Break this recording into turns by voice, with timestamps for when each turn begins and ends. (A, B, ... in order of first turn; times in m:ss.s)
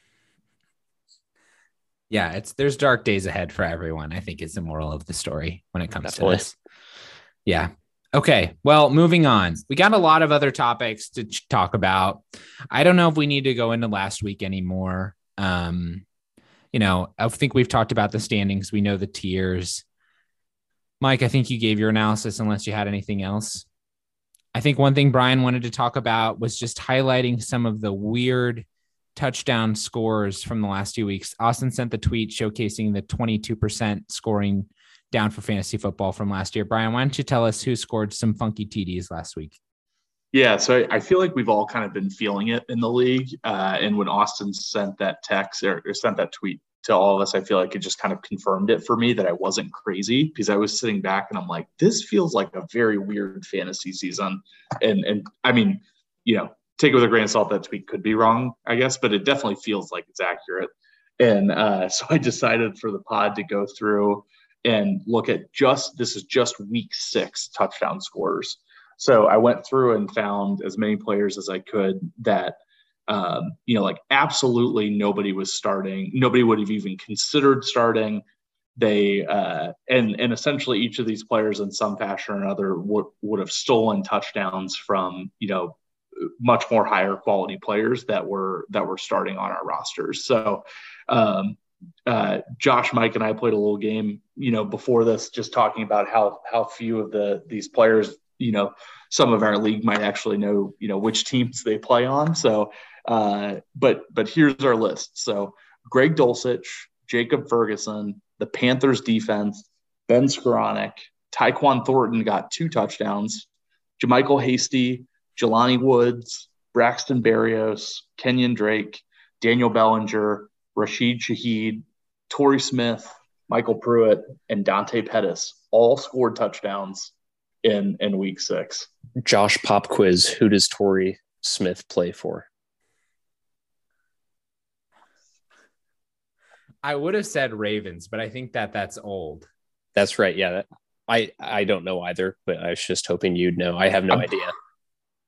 0:02.1-0:06.5 A
0:06.0-0:06.4 B
0:07.4-0:16.0 A
0:16.7-0:19.8 A
0:21.0-0:23.6 A
0:24.5-0:39.6 A
0:40.3-1:18.2 C
1:18.8-1:25.8 C
1:26.3-1:53.5 C
1:54.0-2:08.9 C
2:09.2-2:12.5 B
2:16.8-2:19.5 A
2:19.9-2:24.5 B